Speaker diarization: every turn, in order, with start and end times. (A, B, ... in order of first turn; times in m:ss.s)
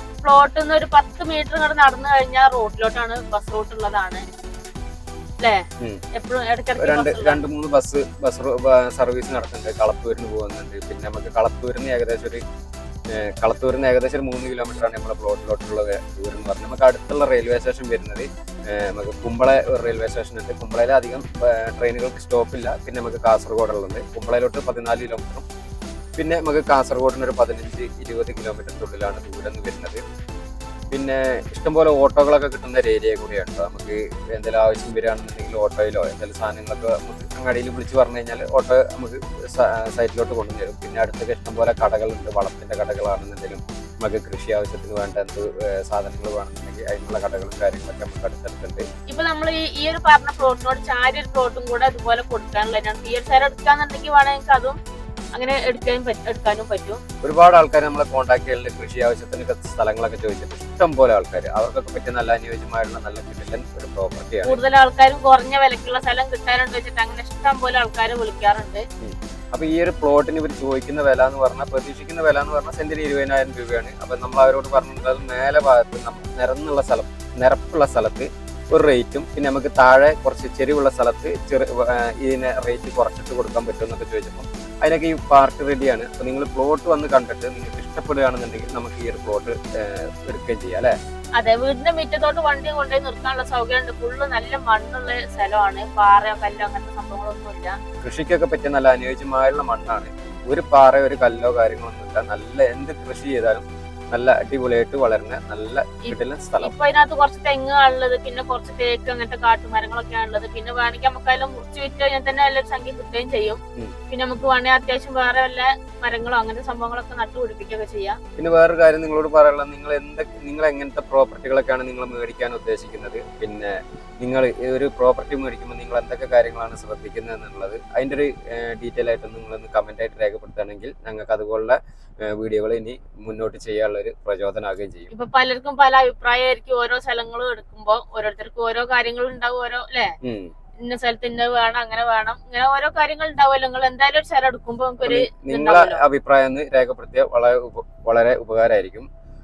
0:00.2-0:04.2 A
0:06.1-0:07.4 A
0:06.8-0:12.4 B
0:13.1-0:25.4 B
0:26.2-0:30.0 B
0:30.9-0:48.8 B
0:49.1-0:54.8 A
0:55.3-0:57.0 A
0:57.2-1:04.6 B
1:04.4-1:08.8 A
1:09.0-1:30.9 B
1:31.4-1:37.8 A
1:38.0-1:46.7 B
1:46.0-1:58.2 A
1:58.4-2:15.1 B
2:15.1-2:20.1 A
2:20.2-2:20.5 B
2:20.8-2:26.0 A
2:25.0-2:29.1 B